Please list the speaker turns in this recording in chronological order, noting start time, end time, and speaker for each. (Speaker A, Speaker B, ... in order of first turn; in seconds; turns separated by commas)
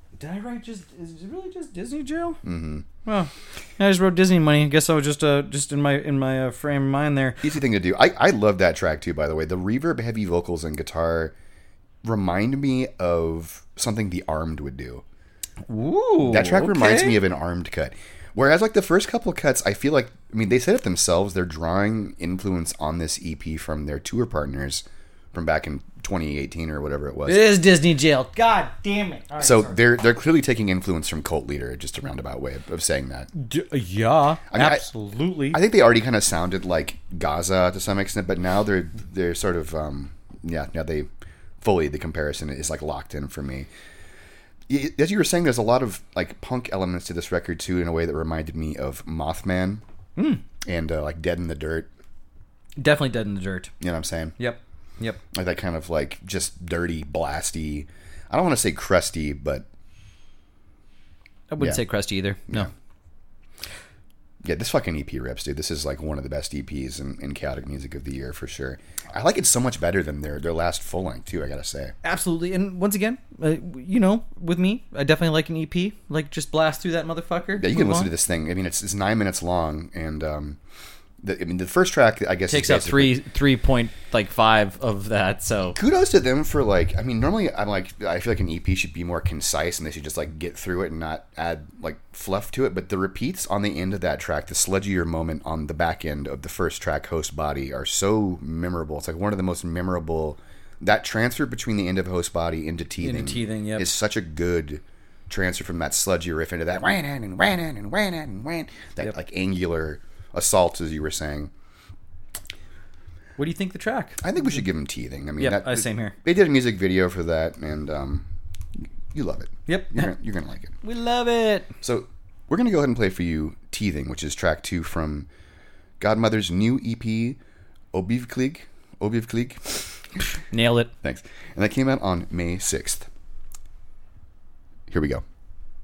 Speaker A: 0.2-2.4, Speaker B: 2.4-2.9, Speaker A: 3.0-7.4, Speaker B: 7.4-11.3, Speaker B: 12.0-15.0, Speaker A: 15.7-17.2, Speaker B: 16.2-27.5, Speaker A: 27.2-29.8, Speaker B: 29.4-33.3, Speaker A: 33.3-35.6, Speaker B: 34.5-34.9, Speaker B: 35.5-41.1, Speaker B: 41.6-43.7, Speaker B: 44.7-49.8, Speaker A: 50.1-50.4, Speaker B: 50.6-51.9, Speaker A: 52.8-53.7, Speaker B: 53.8-54.4, Speaker A: 54.4-55.2, Speaker B: 55.3-59.6, Speaker A: 61.5-62.7, Speaker B: 61.6-61.8, Speaker B: 64.4-72.0, Speaker A: 72.0-78.1, Speaker B: 77.5-80.6, Speaker B: 81.2-83.1, Speaker A: 82.5-85.8, Speaker B: 85.8-111.5, Speaker A: 103.0-103.9, Speaker A: 113.4-114.2, Speaker B: 114.2-118.3, Speaker A: 115.4-116.2, Speaker B: 118.8-120.8, Speaker A: 119.7-120.1, Speaker A: 120.8-121.7, Speaker B: 121.8-125.3, Speaker B: 126.0-127.4, Speaker B: 127.9-130.0, Speaker A: 130.5-130.9, Speaker B: 131.0-133.1, Speaker B: 134.9-135.2